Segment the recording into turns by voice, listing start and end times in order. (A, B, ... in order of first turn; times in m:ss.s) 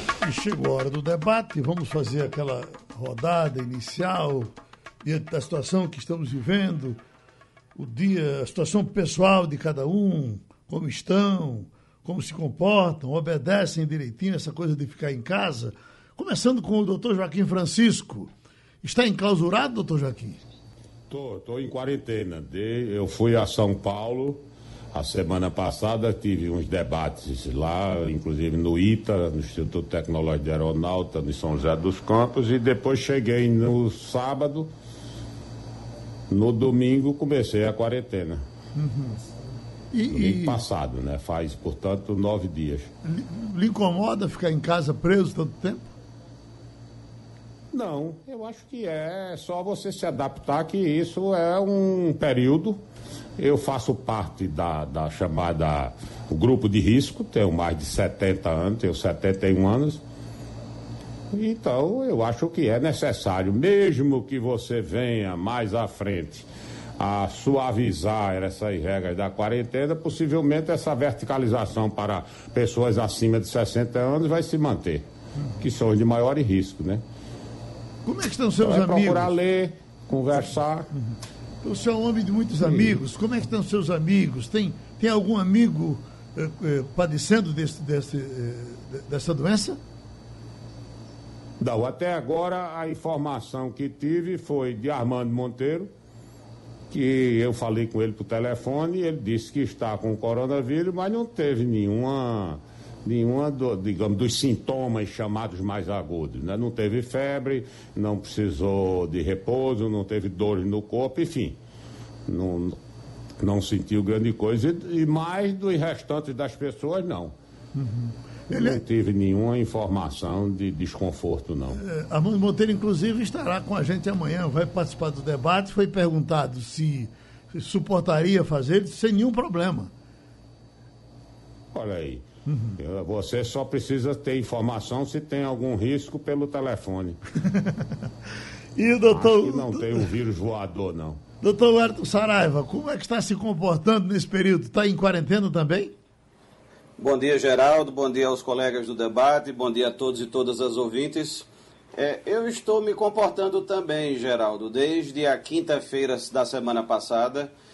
0:00.2-0:04.5 A
0:05.0-0:07.0 A
0:07.8-0:18.3 A
0:18.8-0:20.4 A
0:21.1-0:24.4 B
0:24.9-0:34.7 B
0:36.3-0:38.4 B
0:38.8-0:39.2 A
0:39.9-0:40.6 A
0:40.1-0:42.9 B
0:43.0-0:45.9 A
0:47.7-0:52.8 B
0:53.4-1:00.0 B
1:01.3-1:06.5 B
1:07.0-1:15.0 B
1:15.6-1:17.0 B
1:18.0-1:19.3 A
1:18.6-1:20.9 B
1:20.9-1:29.8 A
1:22.6-1:23.0 B
1:31.6-1:35.9 B
1:36.9-1:51.6 B
1:52.3-1:52.8 B
1:53.4-1:57.3 B
1:57.7-1:58.8 A
1:58.5-2:01.8 B
2:01.8-2:09.9 A
2:11.7-2:12.3 B
2:12.5-2:12.8 A
2:12.8-2:17.2 B
2:17.5-2:17.8 A
2:18.8-2:20.1 A
2:19.1-2:21.2 B
2:21.4-2:26.0 A
2:27.0-2:37.5 C